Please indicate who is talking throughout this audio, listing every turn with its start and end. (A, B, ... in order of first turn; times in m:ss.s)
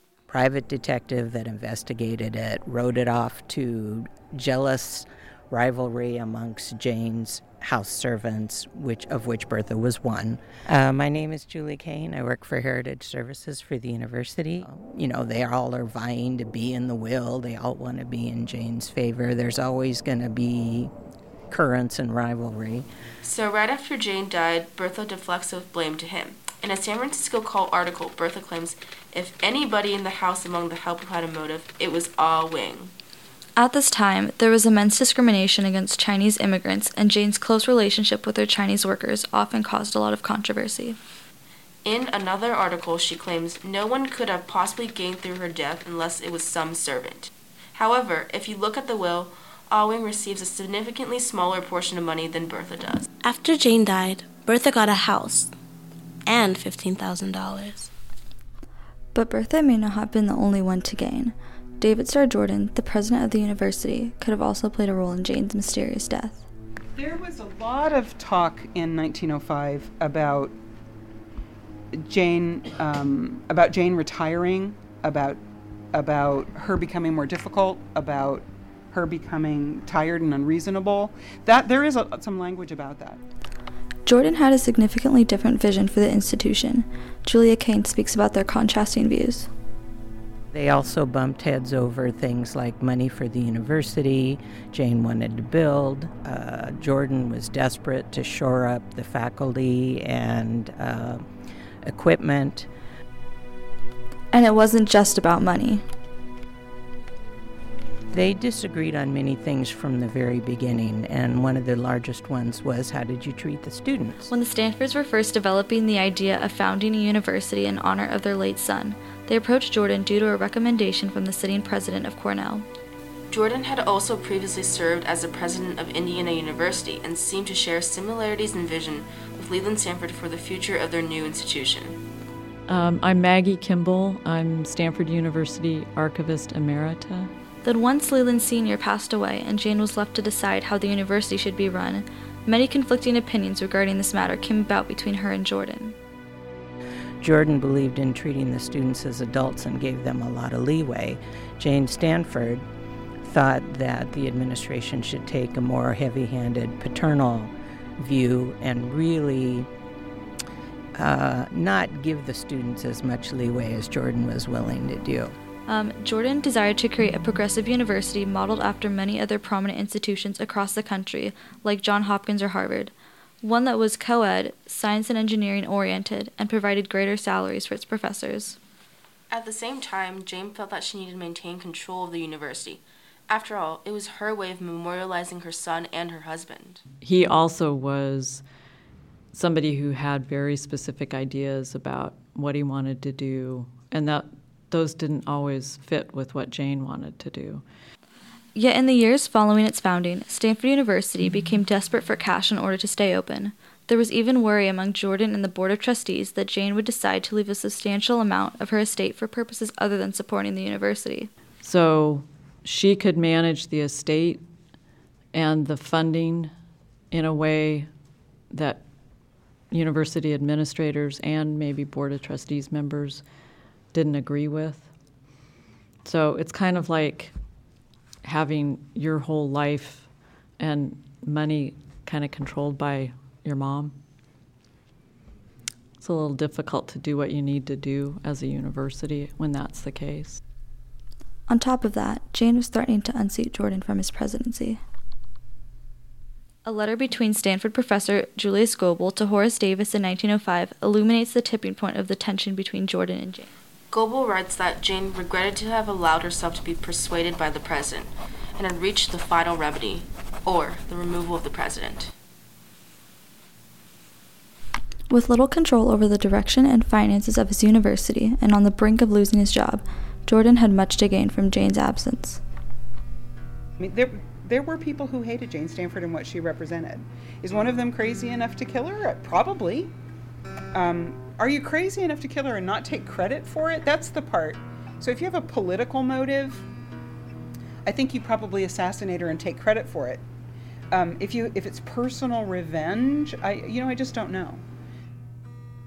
0:00.3-0:20.9 A
0:21.5-0:22.9 A
0:23.2-0:32.9 B
0:33.6-0:41.0 C
0:41.8-0:53.1 B
0:53.2-0:55.5 D
0:56.2-0:57.9 D
0:59.1-1:06.4 C
1:07.0-1:10.5 E
1:12.0-1:15.4 E
1:15.9-1:23.2 E
1:24.0-1:29.5 C
1:30.5-1:41.3 A
1:41.8-1:42.7 A
1:44.3-1:45.8 C
1:48.1-1:54.3 A
1:54.3-2:02.6 C
2:03.3-2:12.0 B
2:12.7-2:17.3 F
2:17.6-2:26.0 C
2:27.2-2:32.6 A
2:33.2-2:39.7 A
2:41.0-2:45.3 A
2:45.7-2:58.6 C
2:59.3-3:06.8 B
3:07.0-3:08.4 F
3:09.3-3:17.6 F
3:18.5-3:31.3 C
3:31.6-3:34.4 F
3:35.3-3:36.5 F
3:37.1-3:37.9 F
3:38.5-3:38.8 F
3:39.7-3:43.2 F
3:43.9-3:44.9 F
3:46.0-3:47.3 F
3:48.2-3:53.9 F
3:56.0-4:00.4 F
4:01.5-4:04.8 C
4:06.6-4:13.5 C
4:13.9-4:22.1 B
4:25.1-4:32.4 C
4:33.8-4:39.9 E
4:40.7-4:46.6 E
4:47.8-4:50.2 E
4:50.9-4:54.6 E